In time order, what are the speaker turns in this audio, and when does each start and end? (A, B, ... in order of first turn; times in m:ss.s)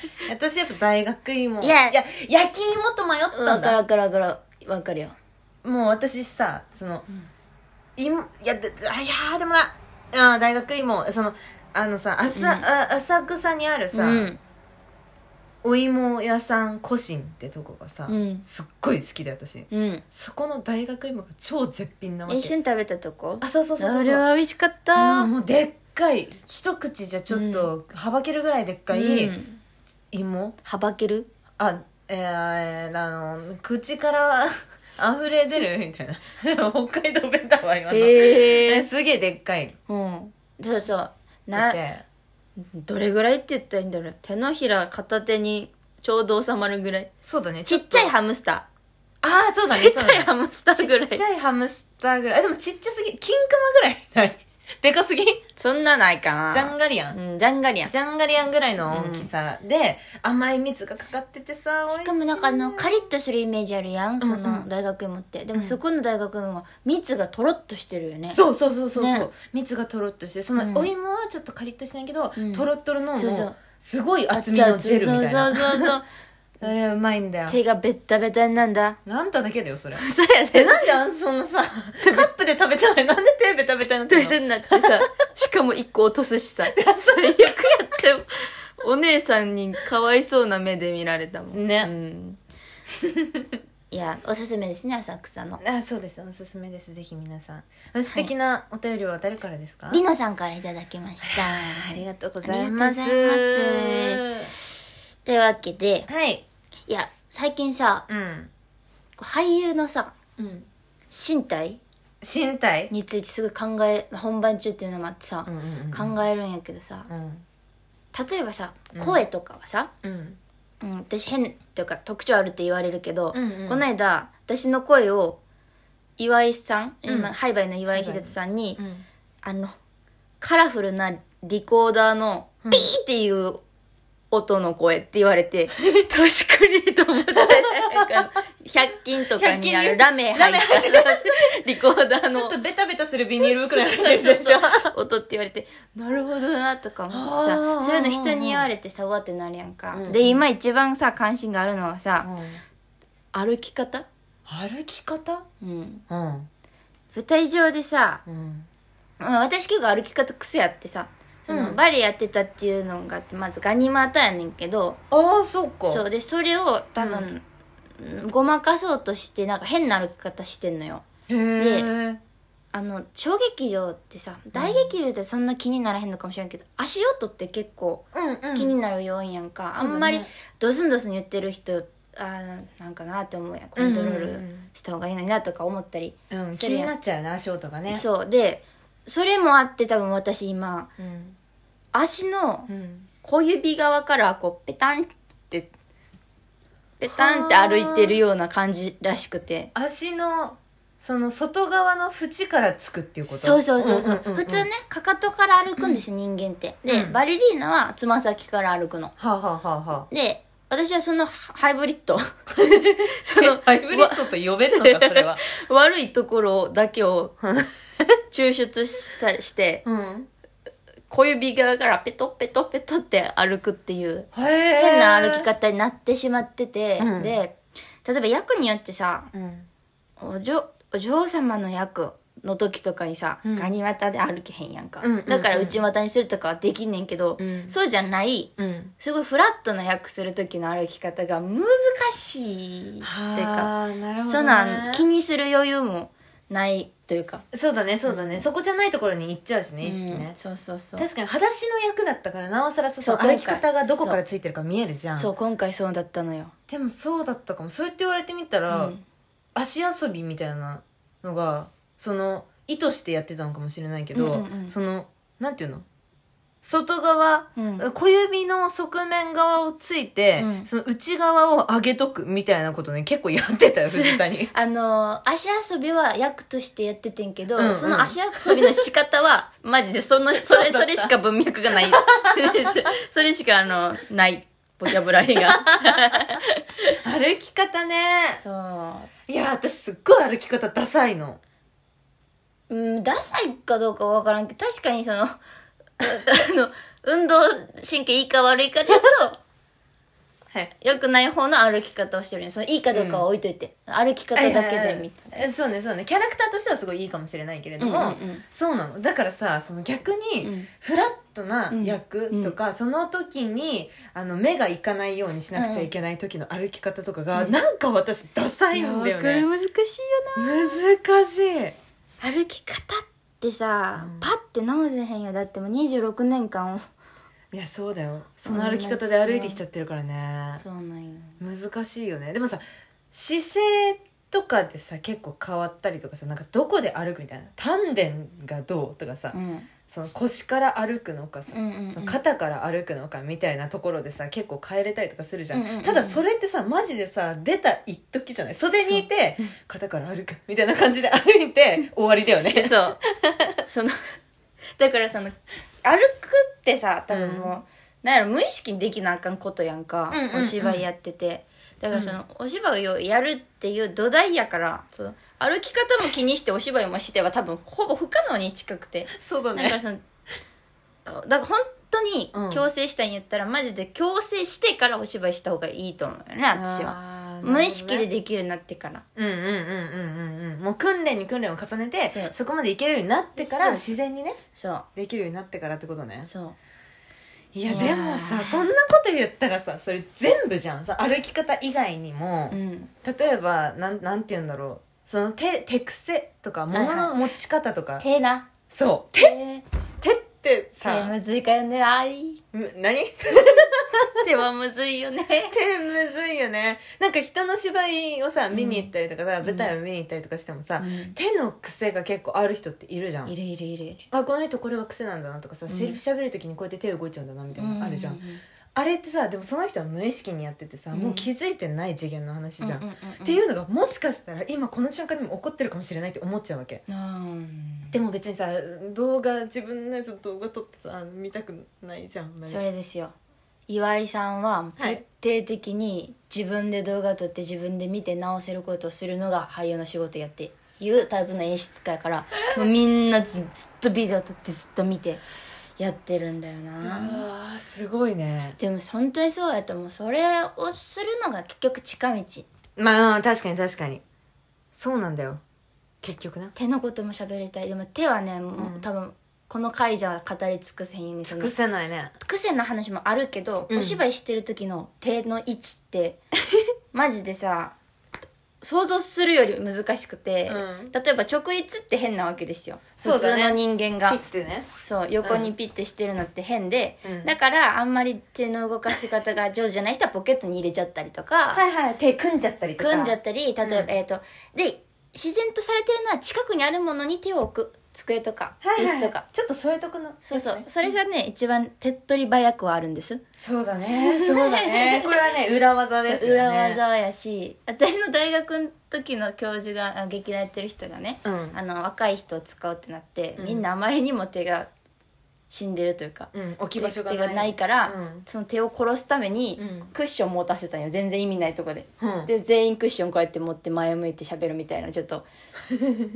0:00.2-0:03.8 A
0:01.6-0:02.0 B
0:03.3-0:05.2 B
0:05.6-0:07.1 A
0:08.0-0:14.3 A
0:12.3-0:12.6 B
0:13.9-0:14.4 B
0:15.6-0:22.5 A
0:18.1-0:18.4 B
0:19.7-0:20.0 B
0:22.3-0:25.3 B
0:23.4-0:24.2 A
0:24.9-0:29.3 A
0:27.3-0:27.7 B
0:28.9-0:29.6 B
0:30.1-0:30.6 A
0:30.6-0:31.3 B
0:31.6-0:39.8 A
0:37.9-0:38.9 B
0:39.9-0:41.8 B
0:41.5-0:42.0 A
0:42.6-0:47.1 B
0:47.2-0:48.1 A
0:47.6-0:48.6 B
0:49.2-0:55.4 A
0:49.7-0:51.2 B
0:55.6-0:57.9 B
0:56.5-0:57.2 A
0:57.8-1:03.0 A
0:58.9-0:59.3 B
1:01.9-1:08.4 B
1:04.2-1:04.7 A
1:05.5-1:05.8 A
1:08.3-1:16.0 A
1:08.9-1:09.3 B
1:10.6-1:10.9 B
1:12.4-1:13.6 B
1:14.3-1:16.0 B
1:16.6-1:17.6 A
1:17.5-1:19.0 B
1:19.0-1:25.0 A
1:20.0-1:20.9 B
1:24.1-1:28.3 B
1:26.7-1:27.6 A
1:28.8-1:32.4 B
1:31.5-1:31.9 A
1:33.9-1:35.6 B
1:35.6-1:40.0 A
1:39.9-1:44.2 B
1:41.2-1:44.5 A
1:45.2-1:46.1 B
1:46.1-1:46.4 A
1:46.9-1:48.0 B
1:48.1-1:48.5 A
1:49.2-1:50.1 B
1:50.4-1:50.7 A
1:51.1-1:51.8 B
1:52.2-1:52.9 A
1:52.9-1:57.1 B
1:55.4-1:56.2 A
1:57.1-1:57.4 A
1:58.1-1:59.9 B
1:58.9-1:59.2 A
2:00.0-2:00.4 A
2:00.8-2:05.4 B
2:03.3-2:03.8 A
2:06.2-2:08.8 B
2:07.1-2:07.3 A
2:07.9-2:09.0 A
2:09.4-2:09.8 B
2:10.4-2:13.6 B
2:12.6-2:12.9 A
2:14.3-2:22.5 B
2:19.3-2:21.5 A
2:22.3-2:24.9 A
2:23.4-2:32.3 B
2:27.1-2:28.7 A
2:29.9-2:30.4 A
2:32.2-2:32.6 A
2:33.3-2:34.1 B
2:34.5-2:35.4 A
2:35.6-2:36.0 B
2:36.1-2:36.5 A
2:37.1-2:38.2 B
2:38.2-2:38.7 A
2:39.2-2:45.0 B
2:41.5-2:41.8 A
2:45.1-2:46.0 A
2:45.9-2:47.4 B
2:47.0-2:47.3 A
2:48.0-2:51.0 B
2:51.3-2:52.2 A
2:51.6-2:51.9 B
2:52.7-3:06.9 B
2:54.5-2:54.9 A
2:58.1-2:58.7 A
2:59.7-3:00.3 A
3:03.8-3:04.7 A
3:06.3-3:08.0 A
3:07.9-3:10.9 B
3:11.0-3:11.4 A
3:11.9-3:12.7 B
3:12.7-3:13.1 A
3:13.2-3:15.7 B
3:17.0-3:19.7 B
3:17.1-3:18.2 A
3:19.7-3:24.7 A
3:23.3-3:29.1 B
3:25.8-3:26.0 A
3:26.9-3:27.2 A
3:29.2-3:30.1 A
3:30.1-3:32.3 B
3:32.5-3:35.4 A
3:33.2-3:37.3 B
3:37.4-3:37.7 A
3:38.3-3:39.8 B
3:39.8-3:40.3 A
3:41.1-3:49.3 B
3:44.3-3:45.5 A
3:47.0-3:47.4 A
3:49.3-3:49.7 A
3:50.2-4:03.7 B
3:53.4-3:53.7 A
3:55.0-3:55.8 A
3:57.4-3:57.7 A
3:58.6-3:58.9 A
4:03.0-4:05.1 A
4:04.3-4:07.4 B
4:07.5-4:10.4 A
4:08.1-4:08.5 B
4:09.8-4:11.0 B
4:11.0-4:15.3 A
4:13.0-4:14.2 B
4:15.2-4:16.5 B
4:16.7-4:18.9 A
4:18.7-4:19.0 B
4:19.5-4:25.8 A
4:24.1-4:24.7 B
4:26.6-4:34.5 A
4:27.6-4:27.8 B
4:30.4-4:30.7 B
4:33.9-4:46.9 B
4:37.6-4:38.8 A
4:40.4-4:41.1 A
4:41.7-4:42.7 A
4:45.4-4:46.4 A
4:47.0-4:48.4 A
4:48.4-4:49.1 B
4:49.3-4:51.4 A
4:52.7-4:55.3 B
4:56.0-4:59.4 B
5:00.8-5:05.4 B
5:02.9-5:03.2 A
5:04.4-5:19.4 A
5:07.8-5:08.4 B
5:10.4-5:10.7 B
5:11.7-5:12.5 B
5:15.5-5:15.9 B
5:18.7-5:20.8 B
5:20.4-5:21.8 A
5:22.2-5:26.8 B
5:24.0-5:24.3 A
5:27.5-5:30.6 A
5:28.4-5:29.6 B
5:30.6-5:31.4 B
5:31.4-5:39.4 A
5:39.3-5:39.7 B
5:39.9-5:53.4 A
5:41.5-5:42.2 B
5:45.5-5:46.2 B
5:48.7-5:49.0 B
5:52.5-5:53.0 B
5:53.6-5:54.0 B
5:54.8-6:10.0 B
5:57.1-5:57.5 A
6:00.1-6:00.8 A
6:01.9-6:02.2 A
6:09.1-6:09.8 A
6:11.0-6:19.0 B
6:12.3-6:12.7 A
6:16.5-6:18.1 A
6:19.2-6:24.4 A
6:22.1-6:22.3 B
6:23.4-6:24.0 B
6:24.5-6:24.9 B
6:25.0-6:26.3 A
6:26.2-6:26.6 B
6:27.5-6:38.0 A
6:27.7-6:28.7 B
6:32.5-6:32.9 B
6:36.7-6:37.2 B
6:38.0-6:38.5 B
6:38.7-6:39.4 A
6:39.2-6:39.6 B
6:40.0-6:41.1 A
6:40.8-6:42.4 B
6:42.5-6:44.2 A
6:44.2-6:45.6 B
6:45.5-6:53.3 A
6:48.5-6:48.9 B
6:49.4-6:49.7 B
6:50.8-6:51.2 B
6:53.2-6:54.1 B
6:54.1-6:58.2 A
6:55.7-6:56.0 B
6:57.6-6:58.4 B
6:58.7-7:06.8 A
7:00.9-7:01.3 B
7:02.6-7:03.4 B
7:06.9-7:08.0 B
7:07.9-7:12.6 A
7:12.5-7:13.1 B
7:13.7-7:25.2 B
7:25.8-7:27.2 B
7:26.8-7:28.6 A
7:28.6-7:32.5 B
7:32.8-7:34.0 A
7:34.7-7:35.4 A
7:36.0-7:36.5 A
7:36.5-7:41.5 B
7:38.5-7:38.9 A
7:41.2-7:42.1 A
7:42.2-7:46.2 B
7:43.7-7:44.0 A
7:46.9-7:47.7 B
7:48.6-7:54.2 B
7:50.5-7:50.9 A
7:53.0-7:54.7 A
7:54.8-8:01.6 B
7:55.2-7:55.5 A
7:57.0-7:57.3 A
8:01.5-8:03.9 A
8:02.8-8:09.2 B
8:08.6-8:11.0 A
8:10.2-8:13.2 B
8:13.4-8:16.8 A
8:14.0-8:15.2 B
8:16.0-8:24.7 B
8:21.2-8:21.6 A
8:23.4-8:23.6 A
8:25.5-8:35.3 B
8:26.3-8:28.2 A
8:29.6-8:29.9 A
8:32.0-8:32.3 A
8:35.7-8:36.1 A